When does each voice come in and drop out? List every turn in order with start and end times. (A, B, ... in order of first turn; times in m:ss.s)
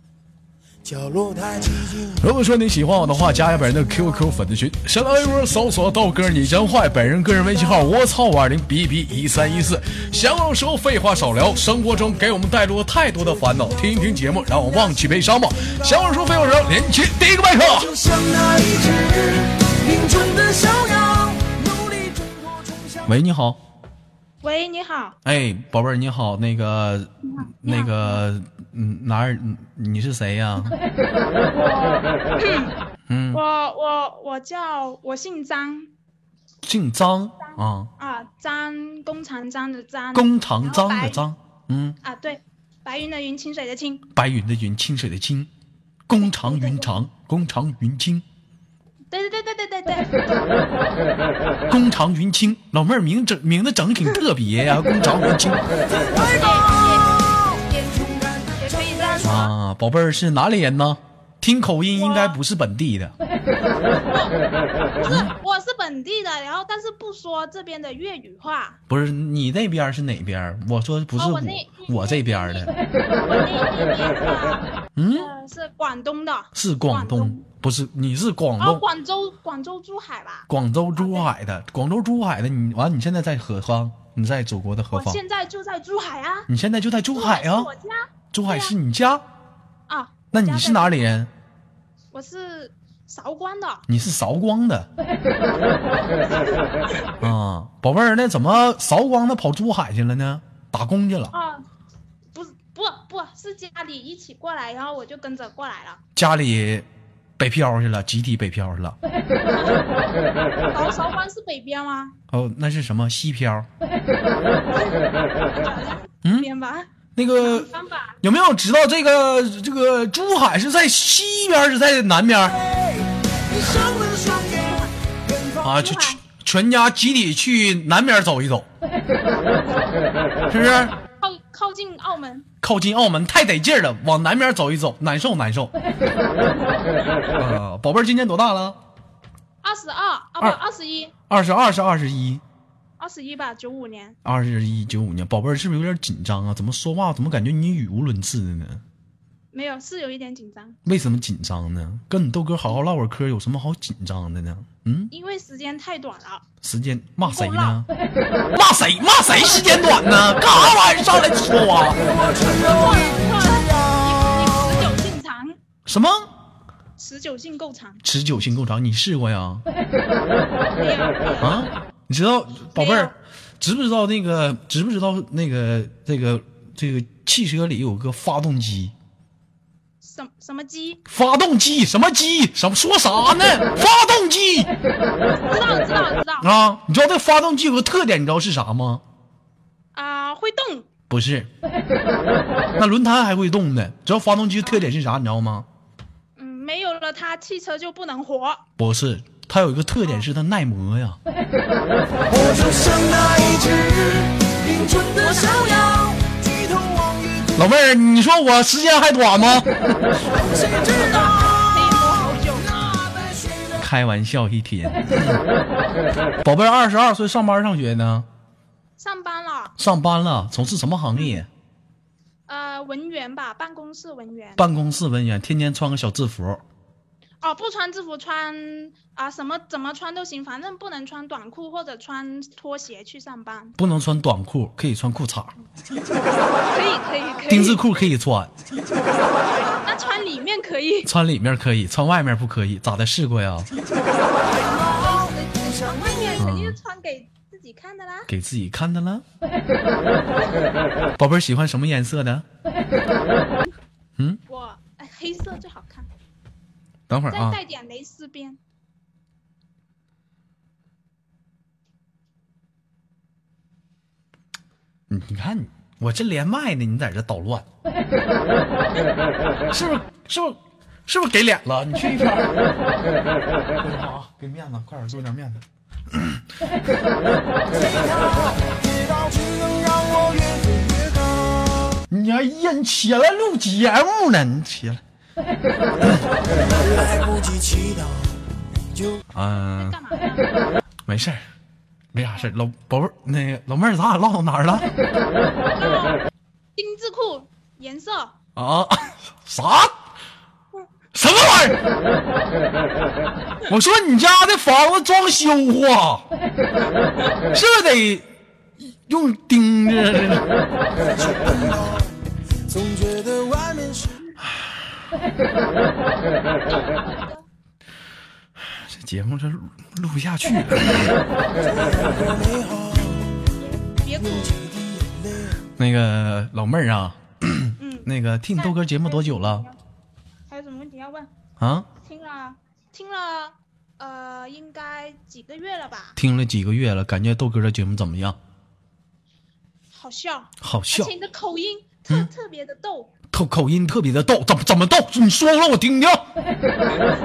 0:00.8-0:02.3 A
0:02.2-0:17.9 B
0:03.0-0:04.4 A
0:07.5-0:07.9 A
0:09.5-0:10.3 A
0:11.1-0:12.4 A
0:13.2-0:16.5 A
0:17.6-0:23.1 A
0:23.1-0:23.6 B
0:24.4-0:25.2 C
0:25.2-0:27.1 B
0:27.2-0:28.2 C
0:27.6-0:30.8 B
0:31.5-0:32.7 C
0:33.1-0:33.4 B
0:33.3-0:35.9 C
0:36.6-0:37.9 B
0:37.5-0:41.2 C
0:40.1-0:42.0 B
0:42.0-0:44.0 C
0:44.1-0:45.5 B
0:46.1-0:48.2 B
0:49.1-0:50.1 C
0:51.7-0:55.7 B
0:55.8-0:59.4 A
0:56.2-0:59.5 C
0:59.2-1:03.1 B
1:01.9-1:02.4 C
1:04.1-1:04.3 C
1:05.0-1:08.8 C
1:05.0-1:05.3 B
1:08.9-1:12.7 B
1:11.2-1:17.4 C
1:15.0-1:15.3 B
1:16.5-1:18.8 B
1:18.6-1:21.3 C
1:20.5-1:25.2 B
1:24.9-1:26.5 C
1:26.5-1:27.7 B
1:27.1-1:28.7 C
1:28.3-1:29.2 B
1:29.9-1:31.0 C
1:30.3-1:31.3 B
1:32.1-1:33.8 C
1:33.9-1:34.9 B
1:37.2-1:41.3 B
1:41.3-1:41.6 C
1:42.3-1:46.0 C
1:46.2-1:46.9 B
1:47.4-1:49.0 B
1:49.4-1:49.8 C
1:50.7-1:52.1 C
1:52.3-1:53.7 B
1:54.7-1:58.2 C
1:56.2-1:56.5 B
1:57.1-1:57.7 B
1:58.2-2:02.6 B
2:02.5-2:05.7 A
2:04.7-2:04.9 C
2:05.6-2:08.7 B
2:05.7-2:06.2 C
2:10.5-2:11.0 B
2:11.2-2:12.5 C
2:12.6-2:15.7 B
2:17.4-2:18.8 B
2:19.6-2:21.1 C
2:21.3-2:22.4 B
2:23.0-2:24.2 C
2:24.2-2:28.8 B
2:29.5-2:30.8 C
2:30.8-2:35.1 B
2:35.1-2:36.4 C
2:36.6-2:37.9 B
2:37.2-2:37.8 C
2:38.5-2:42.0 B
2:39.2-2:39.8 C
2:41.9-2:44.9 A
2:42.4-2:45.6 C
2:45.8-2:46.3 B
2:47.0-2:48.0 C
2:48.0-2:49.6 B
2:50.7-2:51.6 C
2:51.4-2:58.9 B
2:52.7-2:53.1 C
3:00.0-3:01.0 C
3:01.1-3:04.7 B
3:05.4-3:06.5 C
3:06.4-3:09.0 B
3:09.9-3:10.9 C
3:11.1-3:11.5 B
3:12.8-3:15.7 B
3:16.4-3:18.6 C
3:18.8-3:21.2 B
3:22.3-3:27.6 A
3:25.1-3:26.0 C
3:27.6-3:30.0 B
3:30.2-3:33.8 A
3:30.9-3:32.7 C
3:33.8-3:35.4 B
3:36.4-3:38.3 B
3:39.0-3:39.7 C
3:39.8-3:41.5 B
3:42.5-3:44.6 C
3:44.6-3:46.6 B
3:47.4-3:53.8 C
3:53.8-3:55.5 B
3:56.6-3:57.8 C
3:57.5-3:58.5 B
3:59.6-4:01.1 C
4:01.0-4:03.7 B
4:04.5-4:06.4 A
4:04.5-4:08.3 C
4:06.4-4:06.8 B
4:08.3-4:09.2 B
4:11.2-4:12.4 B
4:14.5-4:16.1 C
4:17.1-4:17.6 B
4:17.3-4:18.6 C
4:25.1-4:27.6 B
4:29.7-4:32.5 B
4:33.8-4:36.4 B
4:37.6-4:42.0 A
4:42.1-4:45.0 B
4:46.5-4:49.2 A
4:49.3-4:50.0 B
4:49.8-4:50.7 C
4:51.0-4:51.4 B
4:52.1-4:54.9 B
4:55.7-4:56.2 C
4:56.8-4:58.3 C
4:58.6-4:59.9 B
5:01.1-5:01.8 B
5:03.6-5:06.2 B
5:07.5-5:08.3 B
5:09.1-5:10.4 B
5:11.0-5:14.3 A
5:14.5-5:14.8 B
5:16.6-5:17.4 C
5:18.6-5:21.2 B
5:21.5-5:23.4 A
5:23.6-5:24.5 C
5:24.2-5:25.6 A
5:25.8-5:29.6 B
5:27.8-5:29.8 C
5:30.5-5:31.3 C
5:31.6-5:31.9 B
5:32.0-5:36.2 C
5:36.2-5:38.4 B
5:39.9-5:43.1 C
5:40.6-5:41.1 B
5:43.3-5:46.2 B